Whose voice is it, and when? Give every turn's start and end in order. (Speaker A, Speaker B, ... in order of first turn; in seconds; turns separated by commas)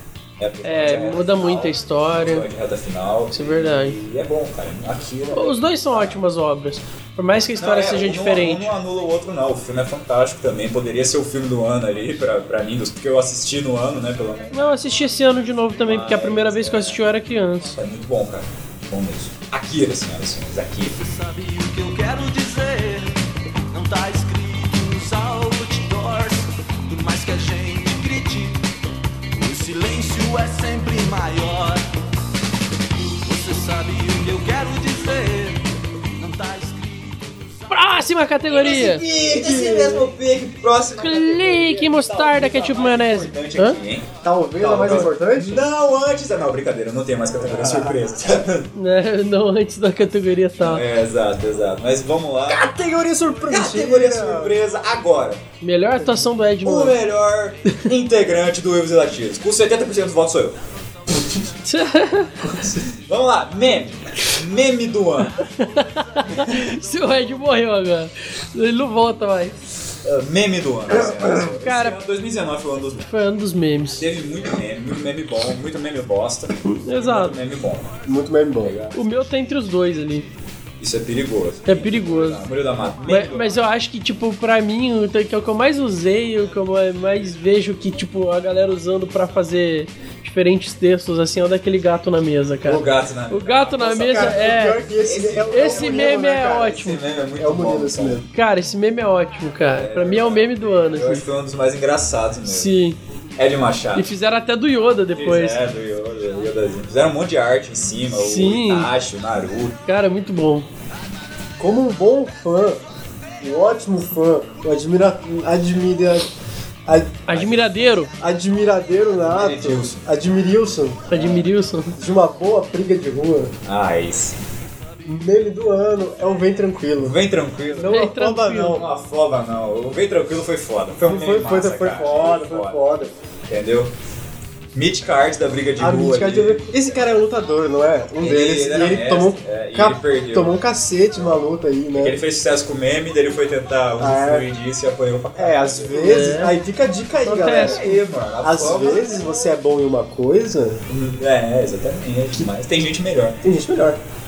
Speaker A: 0.4-6.2, Speaker B: 0.6-2.5, Speaker B: 3.3-4.0, Speaker B: 5.3-8.7, Speaker A: 7.6-14.8, Speaker B: 14.5-17.8, Speaker A: 15.8-17.0, Speaker A: 17.7-21.0, Speaker C: 20.9-28.7, Speaker C: 29.3-32.0, Speaker C: 33.2-38.2, Speaker B: 37.7-39.0, Speaker A: 38.5-48.7, Speaker D: 39.0-40.1, Speaker B: 41.0-43.8, Speaker D: 44.2-45.6, Speaker D: 47.5-47.9, Speaker B: 48.7-50.8, Speaker A: 50.6-52.6, Speaker D: 52.5-54.6, Speaker A: 53.5-55.4, Speaker B: 55.6-57.0, Speaker A: 56.6-60.6, Speaker A: 61.1-61.4, Speaker B: 61.6-62.5, Speaker D: 62.4-62.9, Speaker A: 62.9-65.4, Speaker B: 65.4-69.6, Speaker A: 66.3-66.6, Speaker A: 70.0-73.1, Speaker B: 71.6-72.0, Speaker B: 73.0-74.1, Speaker A: 74.0-78.0, Speaker B: 76.7-77.3, Speaker D: 78.0-78.7, Speaker A: 78.6-79.2, Speaker B: 78.9-80.3, Speaker A: 80.8-83.6, Speaker B: 81.7-82.4, Speaker B: 83.1-94.8, Speaker A: 92.6-98.2, Speaker D: 94.1-96.8, Speaker B: 95.5-97.0, Speaker D: 97.4-98.2, Speaker B: 98.3-101.2, Speaker A: 99.8-102.7, Speaker B: 102.5-103.0, Speaker A: 103.3-104.1, Speaker B: 103.9-105.6, Speaker A: 105.1-109.8, Speaker B: 108.1-108.9, Speaker B: 109.8-110.7, Speaker D: 111.6-112.8, Speaker D: 113.4-116.3, Speaker A: 117.0-117.7, Speaker B: 117.3-118.1, Speaker D: 118.2-121.1, Speaker A: 119.1-120.1, Speaker B: 121.1-122.0, Speaker A: 121.1-121.5, Speaker D: 121.9-123.5, Speaker A: 123.6-124.4, Speaker D: 125.0-127.2, Speaker A: 127.0-132.8, Speaker D: 127.7-128.8, Speaker B: 127.9-128.8, Speaker D: 131.0-133.1, Speaker A: 133.5-133.9, Speaker A: 134.7-137.0, Speaker D: 135.8-142.2, Speaker A: 138.2-140.6, Speaker A: 142.0-146.4, Speaker D: 144.0-144.5, Speaker D: 145.3-150.8, Speaker B: 146.0-146.6, Speaker B: 147.2-147.9, Speaker A: 147.4-149.3, Speaker A: 150.9-153.4, Speaker D: 153.4-154.0